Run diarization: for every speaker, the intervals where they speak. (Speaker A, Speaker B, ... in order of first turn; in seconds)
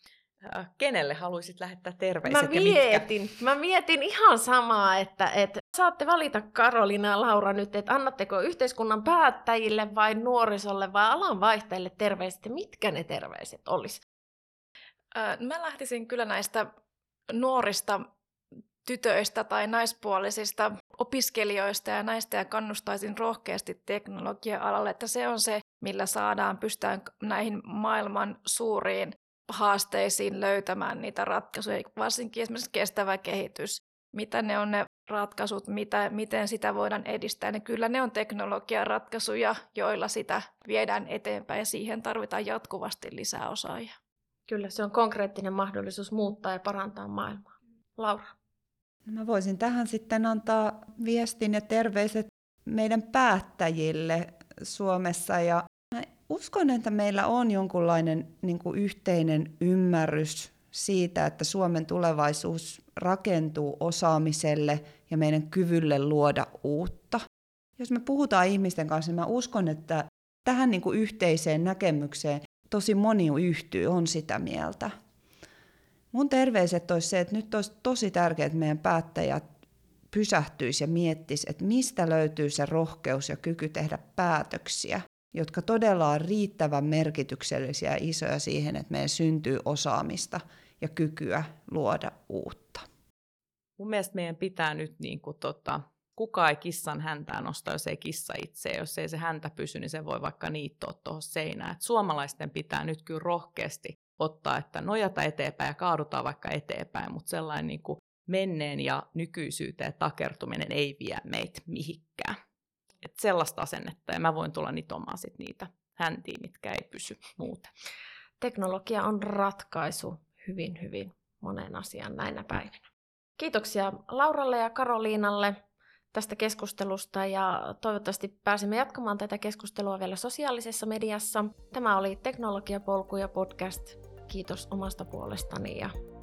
Speaker A: 0.4-3.1, 93.8-112.3, 113.0-117.7
Speaker B: 2.2-14.0, 44.5-48.3, 118.4-122.8, 123.4-125.6, 126.1-135.9
Speaker C: 15.1-16.7, 17.3-18.1, 18.8-43.9
Speaker D: 49.1-67.2, 67.8-74.9, 76.1-79.5, 80.1-92.8